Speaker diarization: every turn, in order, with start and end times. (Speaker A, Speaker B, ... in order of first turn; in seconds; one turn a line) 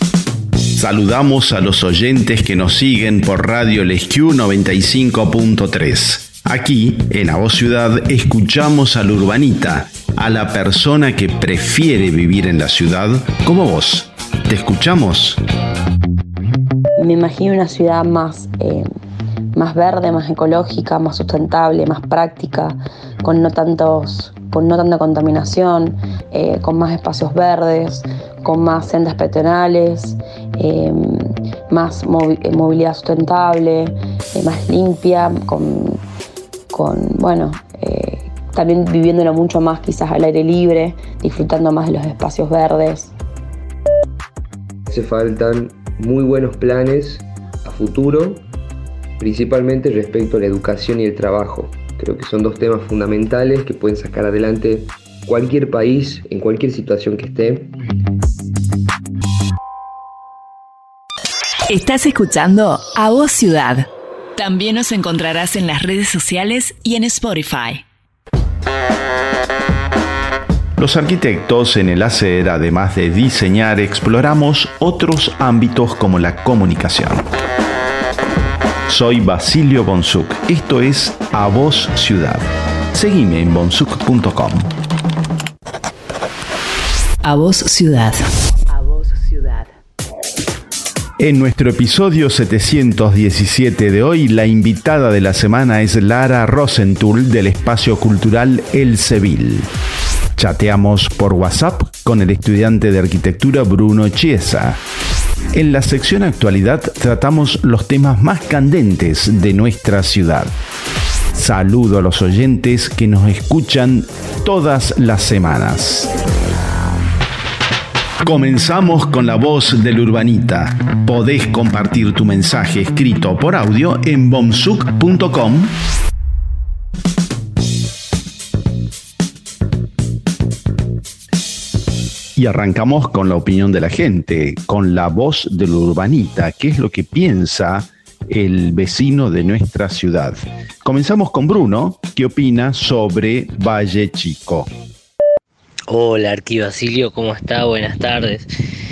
Speaker A: 0.8-15.4
Speaker B: 17.0-18.9
Speaker B: 19.6-36.0
Speaker B: 36.7-43.1
Speaker C: 44.9-48.4
Speaker C: 49.2-57.7
Speaker D: 61.7-67.8
Speaker A: 70.8-77.3
Speaker A: 78.9-84.7
Speaker D: 87.2-89.7
Speaker A: 91.2-99.7
Speaker A: 100.4-104.8
Speaker A: 105.5-110.5
Speaker A: 111.3-116.1
Speaker A: 118.2-125.8
Speaker A: 132.4-144.7
Speaker E: 145.9-148.5